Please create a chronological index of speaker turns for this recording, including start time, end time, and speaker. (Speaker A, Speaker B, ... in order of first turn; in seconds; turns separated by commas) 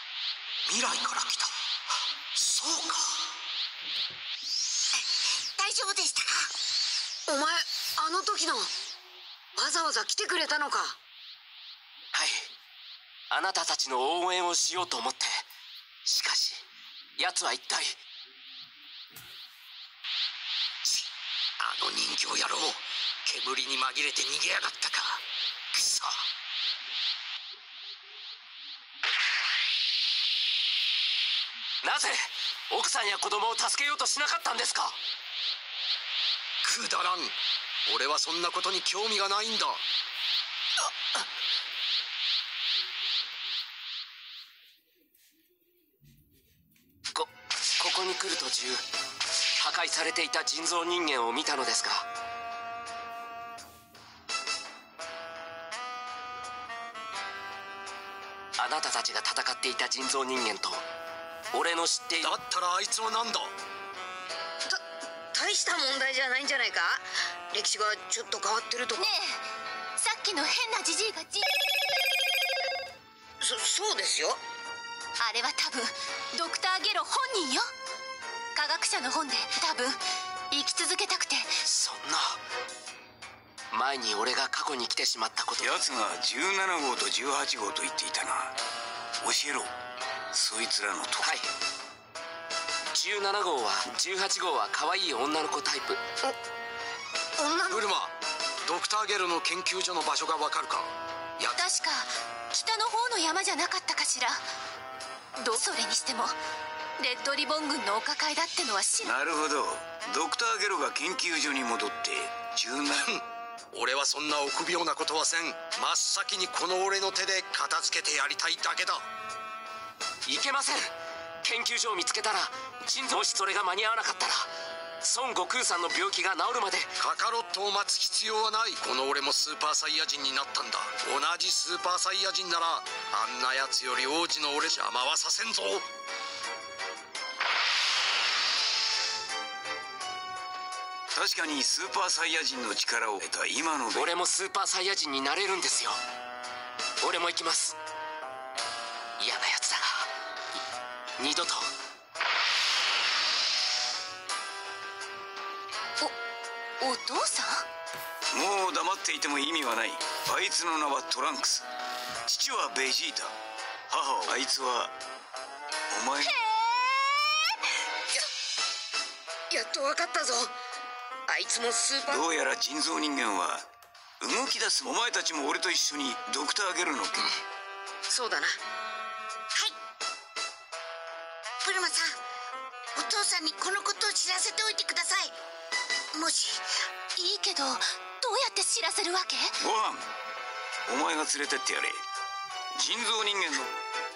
Speaker A: 0.7-1.5, Speaker A: 2.4-3.2, Speaker B: 5.6-6.5, Speaker C: 7.3-8.7, Speaker C: 9.6-11.0, Speaker D: 12.1-12.5, Speaker D: 13.3-15.4, Speaker D: 16.1-16.6, Speaker D: 17.2-18.0, Speaker A: 21.6-25.2, Speaker A: 25.7-26.2, Speaker D: 31.8-35.0, Speaker A: 36.6-37.4, Speaker A: 37.9-39.8, Speaker D: 47.1-48.8, Speaker D: 49.6-52.1, Speaker D: 58.6-60.8, Speaker D: 61.5-62.4, Speaker A: 62.2-63.5, Speaker C: 65.3-69.2, Speaker E: 69.0-69.4, Speaker E: 70.0-71.5, Speaker C: 73.4-74.4, Speaker E: 75.2-77.7, Speaker E: 78.5-81.6, Speaker D: 81.6-82.4, Speaker D: 83.7-85.8, Speaker F: 85.6-88.5, Speaker F: 89.2-89.7, Speaker F: 90.3-91.4, Speaker D: 91.2-91.5, Speaker D: 93.0-96.0, Speaker C: 97.4-97.8, Speaker A: 97.7-101.7, Speaker E: 101.6-104.4, Speaker E: 105.4-106.4, Speaker E: 107.0-109.2, Speaker F: 109.0-113.1, Speaker A: 113.0-119.0, Speaker D: 120.3-124.5, Speaker D: 125.0-126.9, Speaker A: 127.0-135.9, Speaker F: 141.1-144.2, Speaker D: 143.9-146.0, Speaker D: 147.0-147.8, Speaker D: 149.2-150.1, Speaker D: 151.2-151.7, Speaker E: 156.8-157.6, Speaker F: 158.3-161.7, Speaker F: 162.3-163.3, Speaker F: 163.9-164.9, Speaker F: 165.9-166.4, Speaker C: 169.5-170.5, Speaker C: 171.3-172.2, Speaker F: 172.1-173.7, Speaker F: 174.2-177.3, Speaker C: 178.1-178.6, Speaker B: 181.6-182.1, Speaker B: 183.0-185.3, Speaker B: 186.2-186.6, Speaker E: 187.2-189.6, Speaker F: 189.6-190.1, Speaker F: 190.9-192.0, Speaker F: 192.8-193.7